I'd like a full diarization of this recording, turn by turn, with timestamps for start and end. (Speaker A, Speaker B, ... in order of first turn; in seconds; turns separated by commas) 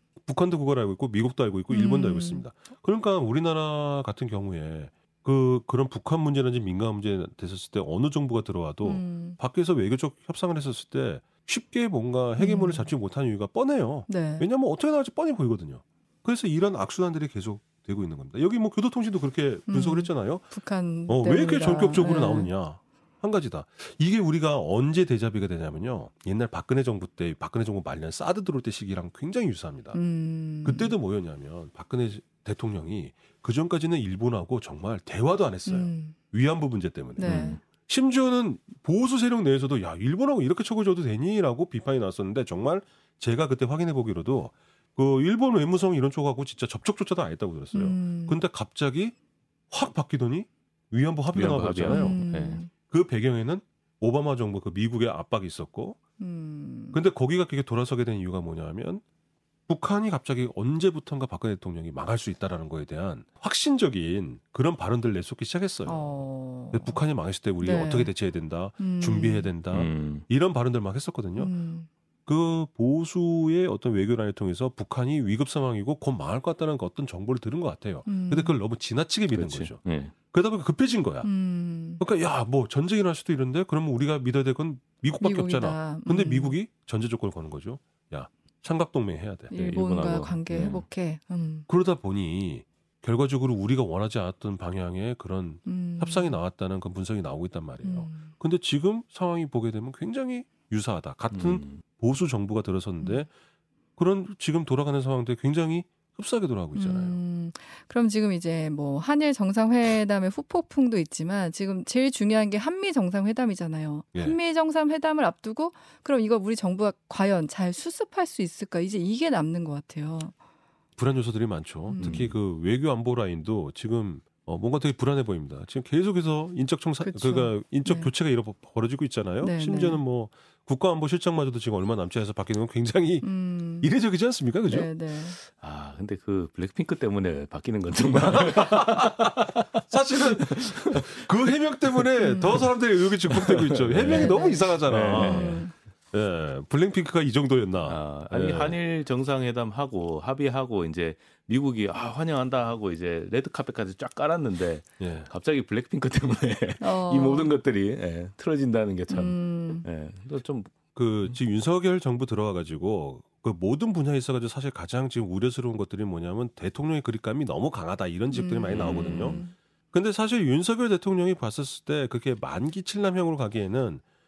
Speaker A: 0.2-20.5, Speaker B: 1.7-2.5, Speaker B: 8.8-9.4, Speaker B: 12.4-12.9, Speaker B: 14.1-14.5, Speaker B: 19.7-22.5, Speaker A: 21.1-30.0, Speaker B: 29.9-30.9, Speaker A: 30.6-49.1, Speaker B: 35.7-36.2, Speaker B: 37.2-37.6, Speaker C: 37.2-37.6, Speaker B: 47.7-48.4, Speaker A: 49.7-52.2, Speaker C: 51.3-52.6, Speaker B: 51.9-52.7, Speaker A: 52.9-56.0, Speaker B: 56.2-57.0, Speaker A: 56.9-59.0, Speaker A: 59.7-71.5, Speaker B: 65.9-67.0, Speaker B: 67.6-68.1, Speaker B: 68.8-69.5, Speaker C: 69.7-70.3, Speaker B: 71.4-71.9, Speaker A: 72.3-81.3, Speaker B: 78.1-78.5, Speaker C: 79.3-80.1, Speaker B: 81.2-82.0, Speaker A: 82.0-89.5, Speaker B: 85.2-86.5, Speaker B: 89.5-91.7, Speaker C: 89.5-90.9, Speaker A: 91.7-103.3, Speaker B: 95.7-96.4, Speaker B: 97.8-98.3, Speaker C: 101.3-101.8, Speaker B: 103.0-103.3, Speaker A: 104.0-107.2, Speaker B: 106.8-120.3, Speaker A: 121.0-133.3, Speaker B: 121.9-122.2, Speaker C: 122.0-122.3, Speaker B: 127.0-128.1, Speaker B: 129.4-130.0, Speaker B: 133.2-133.9, Speaker A: 133.8-134.9, Speaker B: 134.7-135.4, Speaker C: 135.4-141.4, Speaker A: 138.1-139.4, Speaker A: 139.9-148.8, Speaker B: 142.2-142.7, Speaker C: 143.3-145.7, Speaker B: 144.0-145.7, Speaker C: 147.9-160.8, Speaker A: 155.0-155.3, Speaker B: 156.8-157.5, Speaker B: 159.1-159.9, Speaker A: 160.9-174.0, Speaker B: 168.3-169.5, Speaker C: 168.7-169.4